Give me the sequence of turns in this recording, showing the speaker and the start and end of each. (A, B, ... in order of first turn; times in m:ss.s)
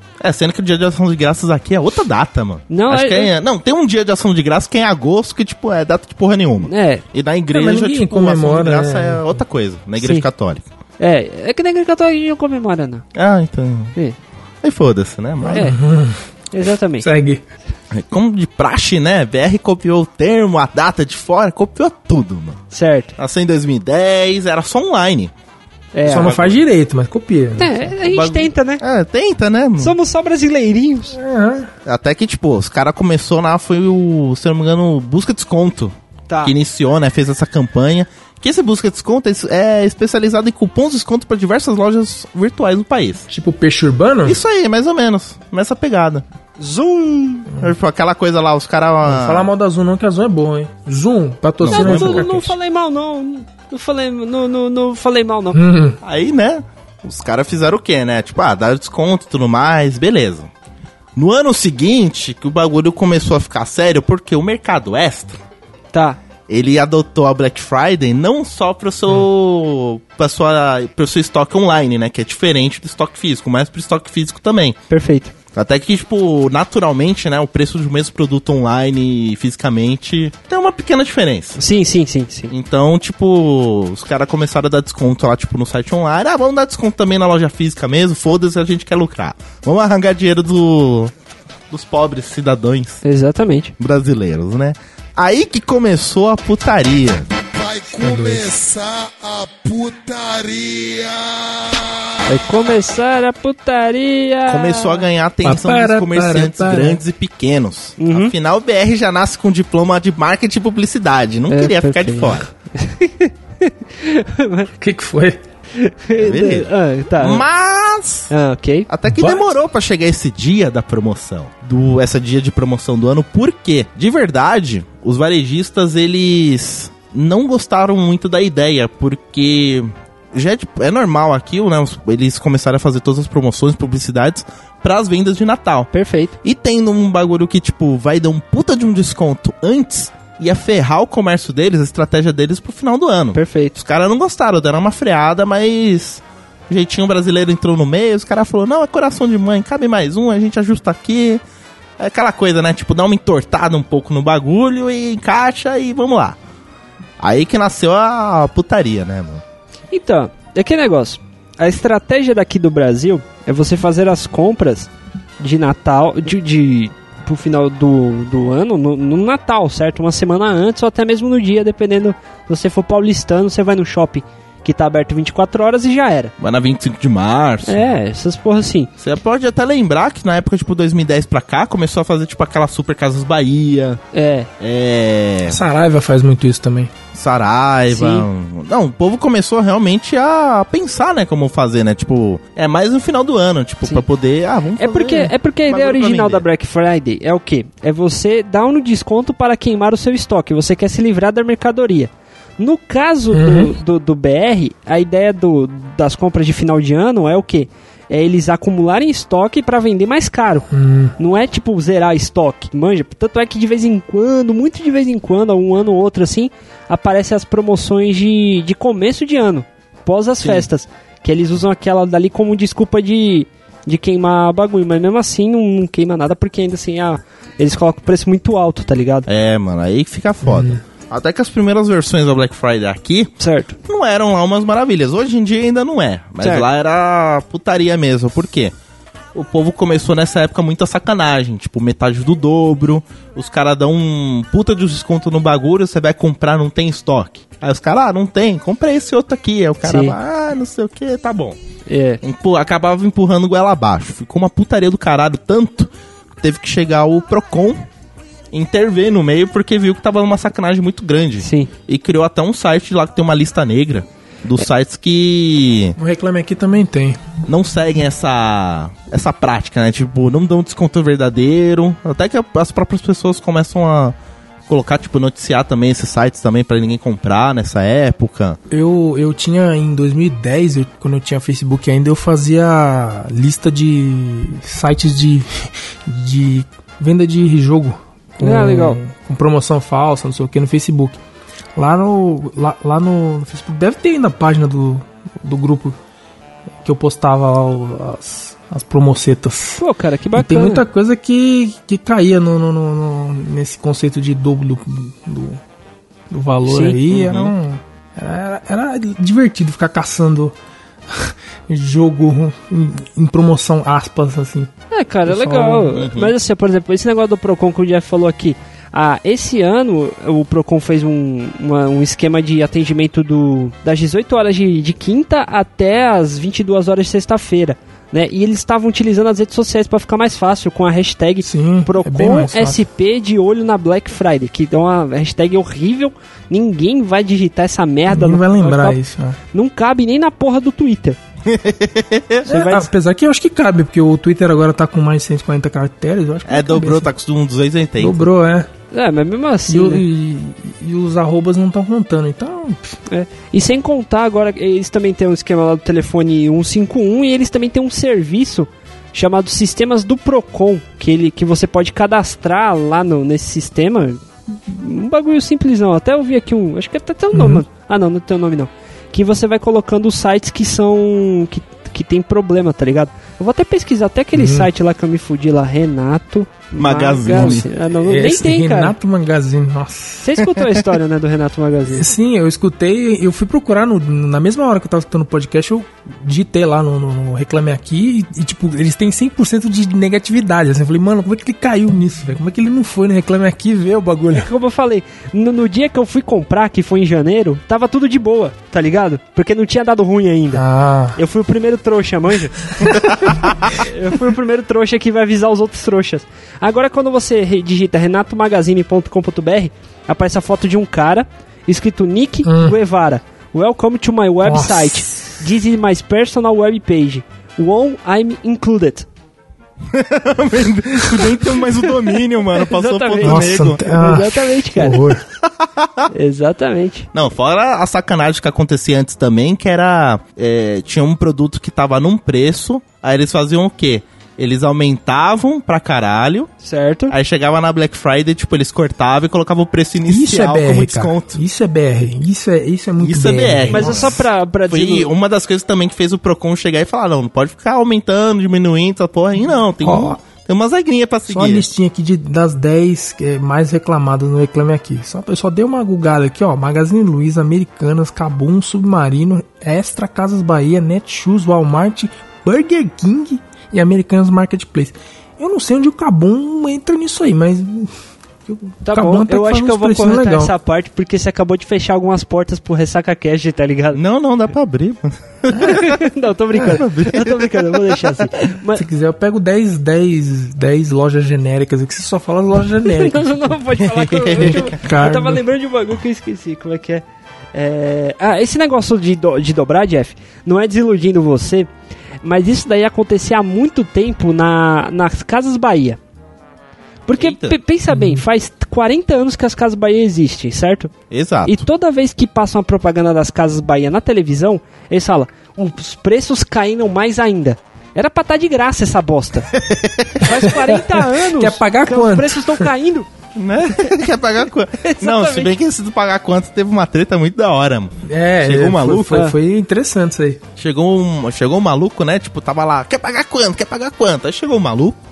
0:00.2-0:10.6 A
0:02.7-0:03.3 B
0:06.6-0:07.0 B
0:07.5-0:09.4 C
0:10.0-0:10.3 B
0:11.0-0:13.0 B
0:13.2-0:13.9 A
0:14.6-0:15.7 A
0:15.4-0:16.2 C
0:15.5-0:15.8 B
0:16.5-0:17.1 B
0:17.0-0:17.4 C
0:17.9-0:22.6 A
0:22.7-0:23.1 B
0:23.2-0:25.3 A
0:25.9-0:26.3 B
0:26.0-0:26.6 A
0:26.1-0:27.7 C
0:27.6-0:28.8 B
0:27.9-0:30.0 A
0:29.8-0:31.2 B
0:31.2-0:31.7 C
0:31.9-0:43.2 A
0:43.3-0:44.4 C
0:44.2-0:46.2 A
0:46.6-0:47.5 B
0:47.6-0:49.5 A
0:49.0-0:52.6 C
0:51.6-0:52.4 A
0:51.7-0:55.6 B
0:55.5-0:56.0 C
0:56.0-1:00.5 A
1:01.2-1:05.4 A
1:05.9-1:06.2 B
1:06.5-1:14.8 A
1:14.9-1:15.3 B
1:15.5-1:21.6 A
1:21.6-1:22.5 B
1:22.5-1:31.1 A
1:31.7-1:33.0 A
1:33.0-1:33.7 B
1:33.8-1:41.3 A
1:38.0-1:38.5 C
1:42.3-1:45.0 B
1:44.5-1:52.5 A
1:45.4-1:47.0 C
1:48.0-1:48.3 B
1:51.5-1:54.7 B
1:54.8-1:55.4 C
1:55.8-1:57.4 B
1:56.2-1:58.3 A
1:58.3-1:58.9 B
1:58.9-2:15.9 A
1:59.1-1:59.5 C
2:15.9-2:16.3 B
2:16.4-2:31.4 A
2:23.3-2:23.8 B
2:32.0-2:36.4 A
2:37.2-2:39.4 A
2:39.9-2:56.3 B
2:56.4-2:57.8 A
2:57.7-2:58.9 B
2:59.0-3:04.0 A
3:04.1-3:04.5 B
3:04.6-3:05.6 A
3:05.4-3:06.9 C
3:07.1-3:16.5 A
3:07.9-3:08.3 B
3:14.8-3:49.3 B
3:23.3-3:23.7 C
3:30.7-3:31.2 C
3:40.4-3:40.7 A
3:49.3-3:53.3 A
3:50.4-3:50.8 C
3:53.4-3:53.8 B
3:53.9-3:58.7 A
3:56.4-3:56.7 B
3:59.3-4:11.6 A
4:09.8-4:10.2 B
4:11.9-4:12.2 B
4:12.2-4:15.9 A
4:16.4-4:17.8 A
4:18.5-4:26.0 A
4:21.4-4:21.7 B
4:26.0-4:27.2 C
4:27.5-4:34.1 A
4:34.7-4:38.6 A
4:38.7-4:51.2 C
4:48.4-4:49.0 B
4:51.8-4:56.0 C
4:56.8-4:59.8 C
4:59.8-5:00.8 B
5:00.4-5:05.6 C
5:06.3-5:10.6 C
5:06.7-5:07.0 B
5:07.1-5:07.5 A
5:11.1-5:14.7 C
5:14.9-5:39.0 B
5:15.3-5:15.9 C
5:15.9-5:16.3 A
5:31.4-5:32.8 C
5:38.1-5:39.4 C
5:39.5-5:41.2 B
5:41.5-5:42.5 A
5:42.5-5:42.9 B
5:42.5-5:47.1 C
5:46.5-5:48.2 A
5:48.0-5:48.7 C
5:48.9-5:50.0 B
5:49.7-5:53.0 C
5:53.1-6:18.9 B
6:07.3-6:07.6 C
6:14.4-6:14.7 C
6:16.8-6:17.7 A
6:17.3-6:20.3 C
6:20.2-6:22.1 B
6:21.9-6:34.5 C
6:34.3-6:40.6 B
6:40.5-6:41.2 C
6:41.2-6:59.1 B
6:42.8-6:43.3 C
6:52.4-6:52.8 C
6:54.4-6:55.0 C
6:59.9-7:03.9 A
7:02.0-7:05.1 B
7:03.2-7:05.2 C
7:05.6-7:06.1 A
7:06.1-7:07.1 B
7:07.1-7:16.5 A
7:16.6-7:17.1 B
7:17.1-7:21.4 A
7:20.1-7:24.2 C
7:23.0-7:31.7 A
7:23.7-7:25.1 B
7:29.8-7:30.2 C
7:31.3-7:47.9 C
7:48.5-7:50.5 C
7:48.8-7:54.0 B
7:53.9-7:56.0 A
7:55.5-7:58.8 B
7:56.5-7:58.2 A
7:58.7-8:03.6 C
8:02.9-8:07.0 B
8:03.8-8:04.7 A
8:04.4-8:05.4 C
8:07.5-8:11.7 B
8:12.2-8:16.0 B
8:17.1-8:20.9 B
8:17.1-8:17.6 A
8:17.9-8:18.2 C
8:21.1-8:21.6 A
8:21.5-8:29.5 B
8:29.5-8:30.3 A
8:30.2-8:33.1 B
8:30.4-8:32.7 C
8:33.4-8:37.9 A
8:33.7-8:34.0 B
8:34.8-8:35.5 B
8:38.1-8:40.4 C
8:38.4-8:39.3 A
8:40.6-8:45.0 A